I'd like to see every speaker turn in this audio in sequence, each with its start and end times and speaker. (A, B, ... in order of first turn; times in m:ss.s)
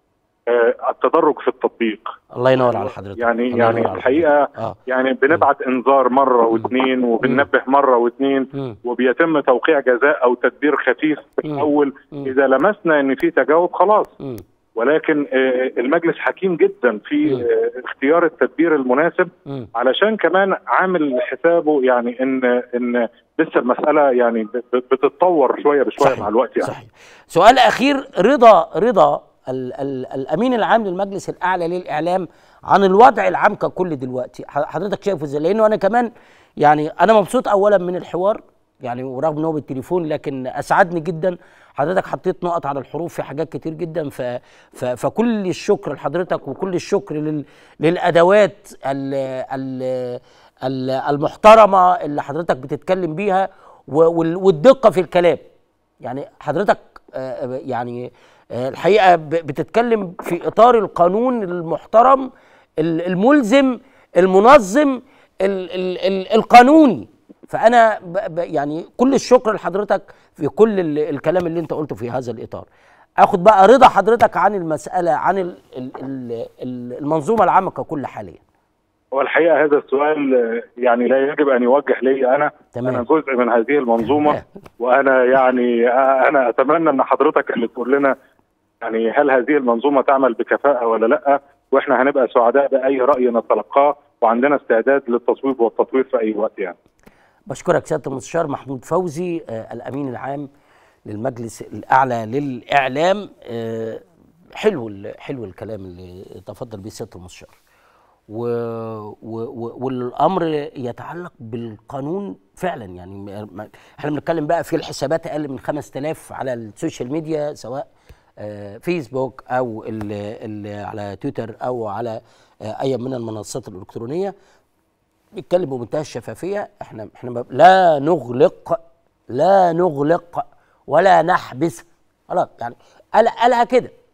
0:00.5-0:14.1 A
0:02.3-0:04.8 B
0:11.4-0:12.3 B
0:14.8-0:26.7 A
0:26.0-0:36.1 B
0:36.6-0:55.4 B
0:56.0-1:02.3 B
1:02.8-1:12.7 B
1:13.2-1:18.4 B
1:19.1-1:28.1 A
1:22.8-1:23.0 B
1:28.8-1:36.8 A
1:37.5-1:40.5 B
1:41.1-1:44.0 B
1:44.6-1:47.6 B
1:48.3-1:57.9 B
1:58.4-2:04.4 B
2:05.4-2:13.9 B